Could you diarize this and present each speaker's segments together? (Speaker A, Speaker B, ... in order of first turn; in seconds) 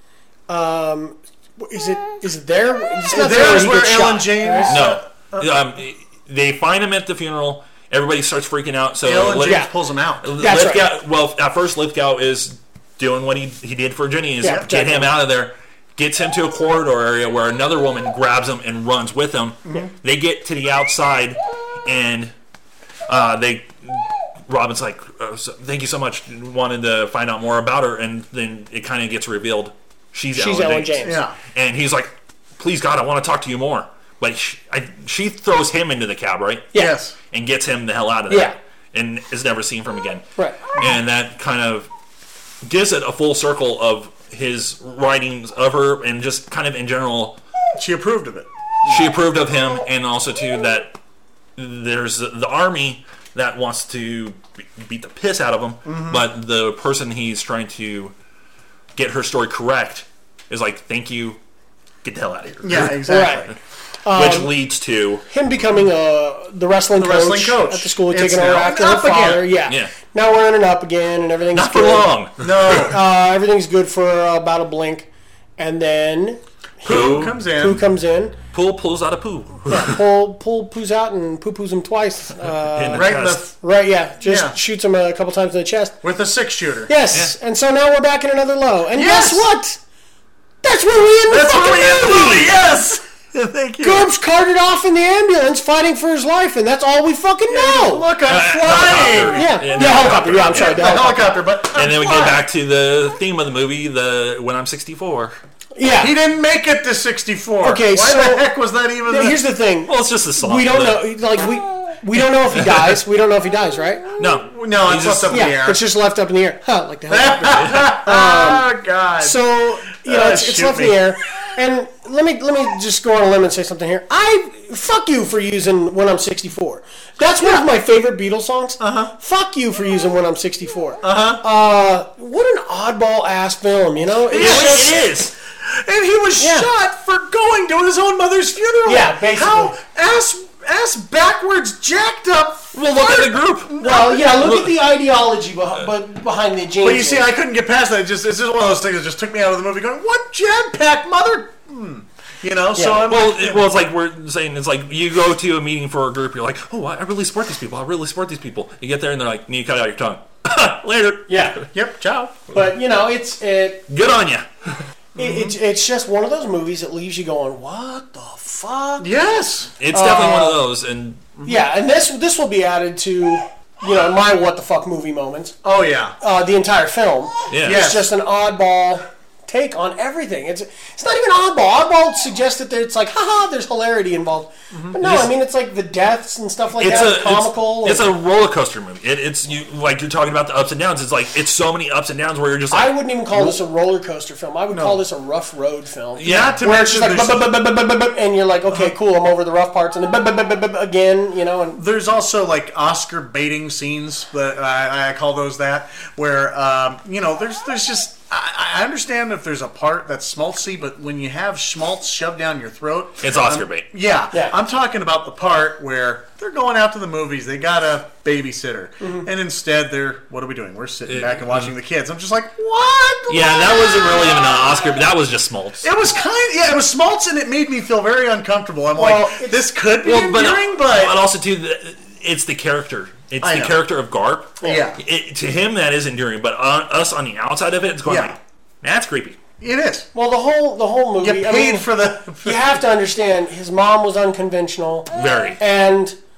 Speaker A: 0.5-4.8, 9.4-9.7, 10.3-10.9, 14.4-15.1, 30.3-31.2, 38.3-38.5, 63.0-63.5, 64.0-64.5, 65.3-72.1, 72.7-78.3, 79.7-86.0, 86.9-89.8, 90.6-92.5, 93.8-98.1, 99.2-101.4, 105.8-106.2, 107.6-108.5, 109.0-114.0, 115.3-118.7, 119.2-134.9, 136.4-136.7, 138.8-139.7, 143.8-147.3, 152.7-153.0, 161.3-161.7, 162.5-163.8, 165.2-169.1, 170.0-170.5, 171.4-175.6, 176.2-188.1, 192.7-201.8, 219.0-219.3, 229.0-229.6, 240.1-246.2
Speaker B: 3.1-5.5, 9.0-10.3, 31.0-31.4, 36.7-37.1, 47.8-49.1, 55.8-56.2, 62.6-63.5, 67.0-69.5, 72.4-73.0, 76.8-77.8, 82.9-83.5, 84.2-84.5, 86.0-86.9, 88.9-89.5, 91.3-94.1, 97.5-99.5, 100.5-102.4, 106.0-109.4, 114.3-115.8, 117.1-119.4, 119.9-121.0, 127.4-127.7, 128.8-129.1, 131.0-131.4, 134.3-135.1, 135.6-144.4, 146.8-153.6, 161.7-162.5, 165.2-165.6, 169.0-170.5, 175.6-176.1, 177.6-178.1, 184.7-184.9, 194.7-195.0, 196.2-197.5, 201.7-224.6, 225.8-231.2, 233.4-233.8, 234.6-235.0, 238.0-238.3, 239.6-240.1, 241.2-242.8
Speaker C: 4.7-9.6, 10.2-22.3, 23.1-36.7, 37.3-41.9, 42.6-47.4, 48.8-50.9, 51.6-58.1, 59.0-61.4, 62.0-63.0, 64.1-65.2, 69.7-69.9, 71.5-72.5, 76.9-77.3, 78.5-80.0, 82.7-83.4, 98.3-100.8, 101.7-105.3, 109.9-111.1, 112.5-113.0, 114.2-115.4, 117.5-117.9, 134.3-135.3, 142.7-144.8, 153.1-161.7, 163.9-164.9, 169.8-171.2, 177.5-177.8, 185.0-185.3, 186.8-193.0, 196.2-196.6, 213.2-213.9, 221.1-221.7, 223.3-225.9, 230.0-239.4, 245.1-245.6